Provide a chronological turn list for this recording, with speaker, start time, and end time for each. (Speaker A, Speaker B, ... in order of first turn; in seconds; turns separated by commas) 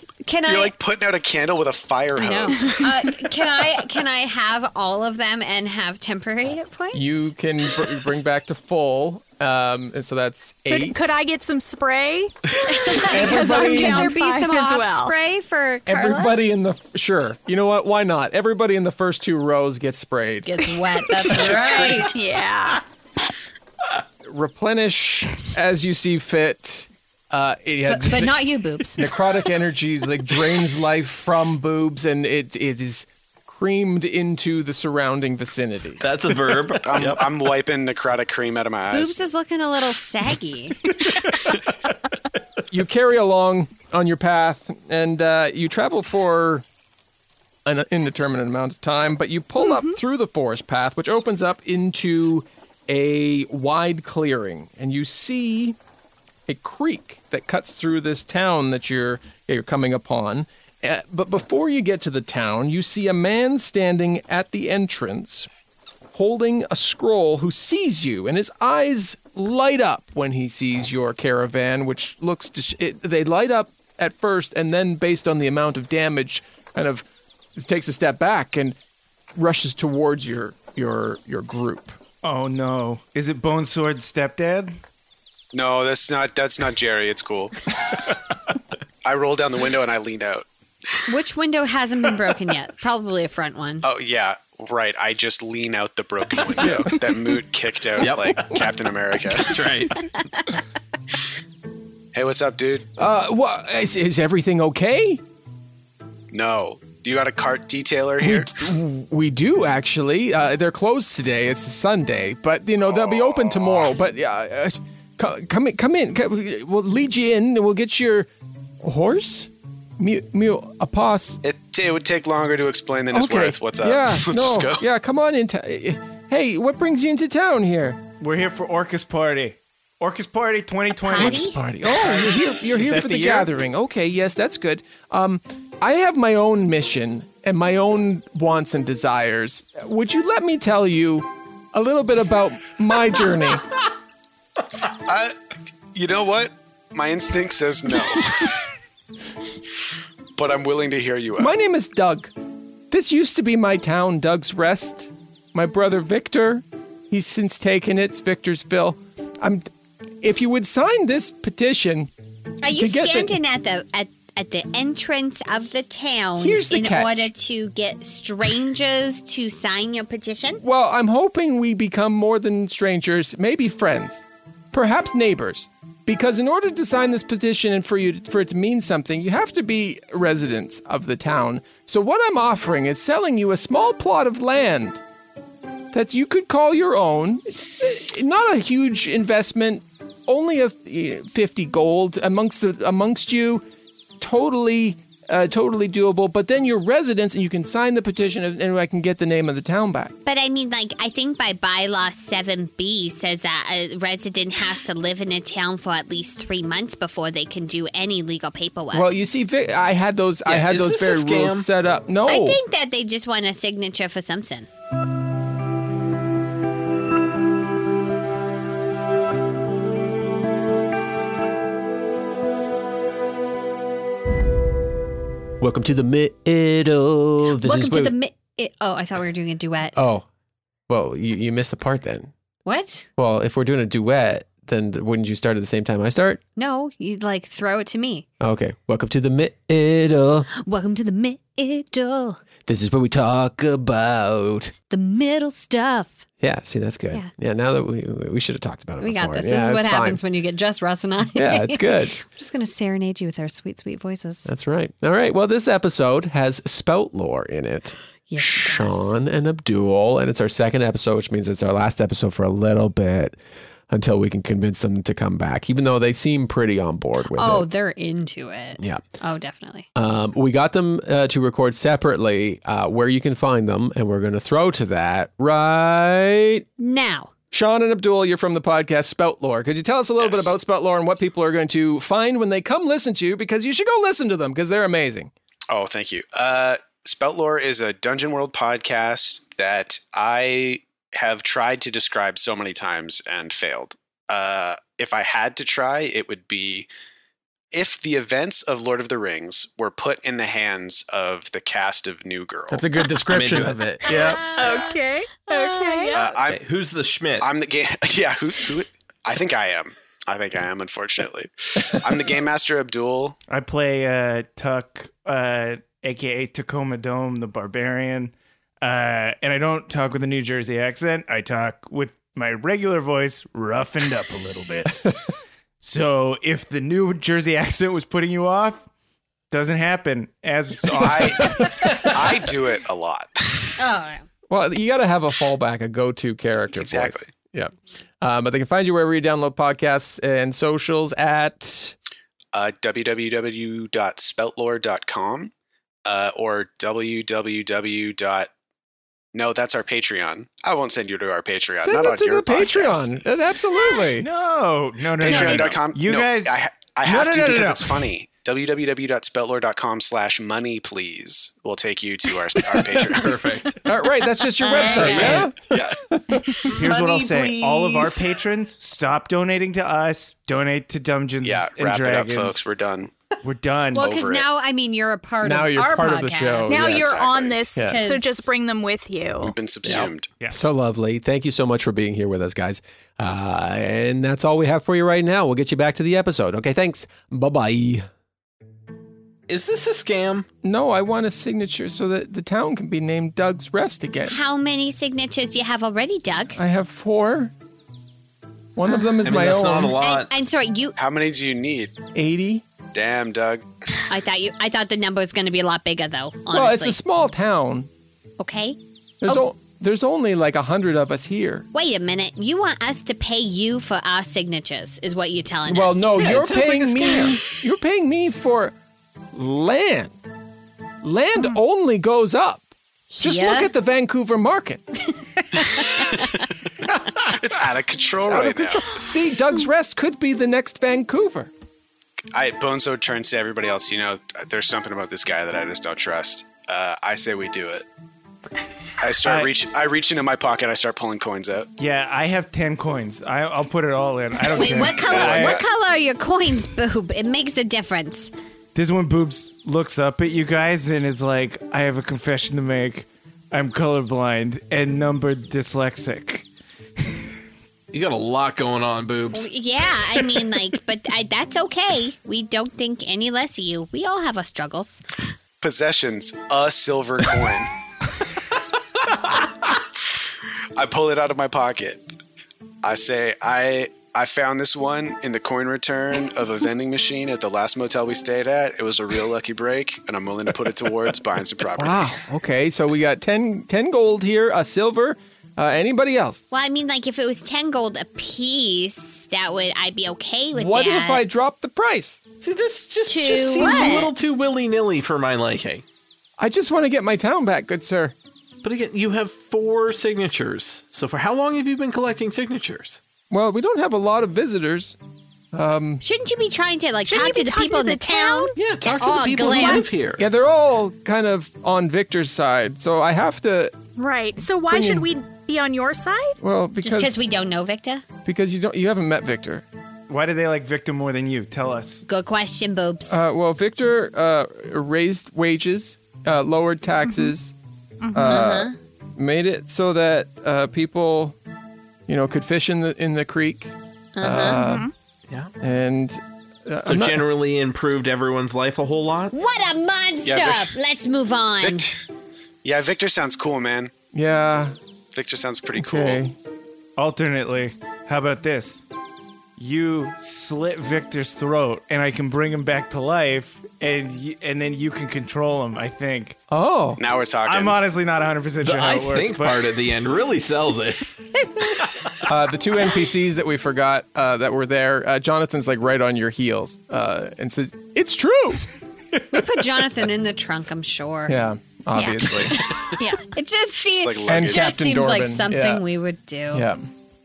Speaker A: 0.2-0.8, Speaker B: 0.5-2.9, Speaker A: 2.2-7.3, Speaker C: 6.9-11.1, Speaker D: 10.7-15.1, Speaker A: 12.7-16.4, Speaker C: 13.0-14.1, Speaker C: 15.9-20.6, Speaker A: 20.4-22.4, Speaker D: 22.0-22.8, Speaker C: 24.2-36.0, Speaker A: 27.9-29.2, Speaker E: 36.0-37.3, Speaker B: 36.8-39.2, Speaker A: 38.9-41.0, Speaker C: 42.7-46.6, Speaker C: 47.6-55.8, Speaker D: 49.6-50.0, Speaker C: 56.5-65.5, Speaker C: 66.1-78.8, Speaker C: 79.4-82.0, Speaker F: 82.2-84.8, Speaker B: 85.5-87.5, Speaker B: 89.0-91.0, Speaker A: 91.1-93.9, Speaker B: 93.8-99.6, Speaker C: 96.6-97.0, Speaker E: 98.0-98.4, Speaker E: 99.4-100.0, Speaker B: 102.1-102.9, Speaker C: 103.0-105.2, Speaker B: 106.3-108.5, Speaker C: 108.2-118.3, Speaker B: 112.9-113.9, Speaker C: 118.8-121.4, Speaker B: 121.4-124.8, Speaker C: 123.1-128.0, Speaker F: 128.2-133.5, Speaker A: 131.0-131.6, Speaker C: 131.2-143.7, Speaker B: 145.1-145.3, Speaker B: 145.9-148.6, Speaker B: 150.4-151.5, Speaker C: 151.4-152.3, Speaker C: 152.9-159.7, Speaker C: 160.2-162.1, Speaker A: 162.6-170.6, Speaker C: 162.7-163.4, Speaker C: 166.4-167.3, Speaker C: 170.6-185.0, Speaker C: 185.9-193.6, Speaker C: 194.2-200.1, Speaker A: 200.2-209.1, Speaker C: 208.9-212.6, Speaker E: 210.5-211.7, Speaker A: 212.3-214.7, Speaker C: 225.6-228.1, Speaker A: 227.6-230.0, Speaker C: 229.9-230.3, Speaker C: 230.9-232.3, Speaker A: 232.7-233.1, Speaker C: 233.2-236.4, Speaker A: 236.6-238.3, Speaker C: 238.4-240.5, Speaker A: 240.6-242.4, Speaker C: 242.7-244.7, Speaker A: 244.9-246.3, Speaker C: 246.4-250.2, Speaker A: 249.0-254.5, Speaker C: 251.3-252.2, Speaker C: 254.5-263.4, Speaker A: 258.3-259.1, Speaker C: 263.9-267.7, Speaker A: 267.3-269.9, Speaker C: 269.9-276.7, Speaker A: 276.8-277.3, Speaker C: 277.5-285.3, Speaker B: 280.2-280.5, Speaker B: 285.7-296.9, Speaker B: 297.7-302.8, Speaker C: 302.7-304.4, Speaker E: 303.3-303.8, Speaker D: 304.1-306.2, Speaker A: 304.3-304.9, Speaker A: 305.5-306.2, Speaker B: 306.1-306.6, Speaker E: 306.5-307.5, Speaker B: 307.4-313.4, Speaker F: 313.5-325.1, Speaker F: 325.8-328.9, Speaker F: 329.5-331.8, Speaker B: 330.9-333.8, Speaker A: 333.8-334.3, Speaker C: 334.5-341.9, Speaker B: 336.7-337.3, Speaker B: 342.5-345.5, Speaker B: 346.1-348.5, Speaker B: 349.3-353.2, Speaker C: 351.8-354.3, Speaker F: 354.1-358.1, Speaker B: 355.2-363.5, Speaker A: 355.3-355.6, Speaker E: 363.1-363.8, Speaker C: 363.8-368.2, Speaker A: 364.7-365.5, Speaker B: 365.1-366.0, Speaker F: 366.7-372.6, Speaker B: 371.4-373.1, Speaker F: 373.4-374.1, Speaker B: 373.9-374.5, Speaker A: 373.9-377.0, Speaker C: 375.4-377.2, Speaker D: 376.7-379.6, Speaker B: 376.9-377.7, Speaker A: 377.8-378.5, Speaker B: 379.4-380.3, Speaker C: 380.5-388.1, Speaker E: 389.5-390.5, Speaker C: 390.6-394.4, Speaker A: 394.3-396.6, Speaker C: 396.6-397.5, Speaker C: 398.8-400.0, Speaker A: 398.9-399.2, Speaker E: 399.2-400.3, Speaker A: 400.0-401.0, Speaker B: 401.0-402.0, Speaker C: 402.1-402.6, Speaker B: 402.9-403.6, Speaker A: 404.1-407.0, Speaker C: 406.5-407.9, Speaker A: 408.4-409.4, Speaker C: 409.2-411.7, Speaker A: 411.7-416.2, Speaker C: 415.7-418.8, Speaker E: 416.2-417.4, Speaker C: 419.3-420.1, Speaker C: 421.0-422.7, Speaker A: 423.1-423.7, Speaker C: 423.2-424.8, Speaker A: 425.4-426.3, Speaker B: 427.2-428.9, Speaker C: 428.2-431.5, Speaker B: 432.3-437.9, Speaker B: 439.0-441.7, Speaker F: 439.2-439.6, Speaker F: 441.8-445.6, Speaker A: 444.5-448.3, Speaker B: 444.7-445.6, Speaker F: 448.8-456.5, Speaker E: 457.9-459.5, Speaker A: 459.3-465.0, Speaker B: 465.6-467.7, Speaker B: 470.1-472.0, Speaker B: 472.8-482.1, Speaker C: 481.8-486.4, Speaker A: 486.5-491.2, Speaker C: 490.5-492.2, Speaker E: 492.4-495.8, Speaker A: 493.1-494.1, Speaker C: 496.4-498.1, Speaker E: 498.6-503.0, Speaker C: 503.3-505.0, Speaker C: 505.5-506.0, Speaker A: 506.0-509.9, Speaker D: 507.1-508.6, Speaker E: 508.6-510.2, Speaker C: 510.2-513.8, Speaker D: 514.0-516.4, Speaker C: 514.7-515.1, Speaker C: 516.4-517.2, Speaker A: 516.8-518.0, Speaker C: 518.2-519.6, Speaker F: 520.1-522.0, Speaker A: 522.1-523.2, Speaker C: 523.1-527.5, Speaker D: 527.0-527.3, Speaker D: 528.0-528.4, Speaker C: 528.1-531.4, Speaker A: 528.2-528.8, Speaker C: 532.1-534.9, Speaker A: 534.2-534.6, Speaker D: 534.5-534.9, Speaker C: 535.6-537.3, Speaker E: 536.9-539.3, Speaker A: 539.3-541.9, Speaker B: 540.2-540.7, Speaker B: 541.6-542.0, Speaker B: 542.6-543.9, Speaker C: 544.1-544.8, Speaker B: 545.1-546.2, Speaker C: 545.8-546.4, Speaker F: 547.0-548.8, Speaker F: 549.6-556.4, Speaker C: 556.5-557.0, Speaker B: 557.0-557.8, Speaker F: 557.5-559.8, Speaker E: 558.6-561.1, Speaker C: 562.3-568.6, Speaker A: 569.3-571.4, Speaker C: 571.3-572.6, Speaker D: 572.0-572.2, Speaker A: 572.5-576.7, Speaker B: 573.9-574.8, Speaker C: 574.3-575.9, Speaker C: 576.5-576.9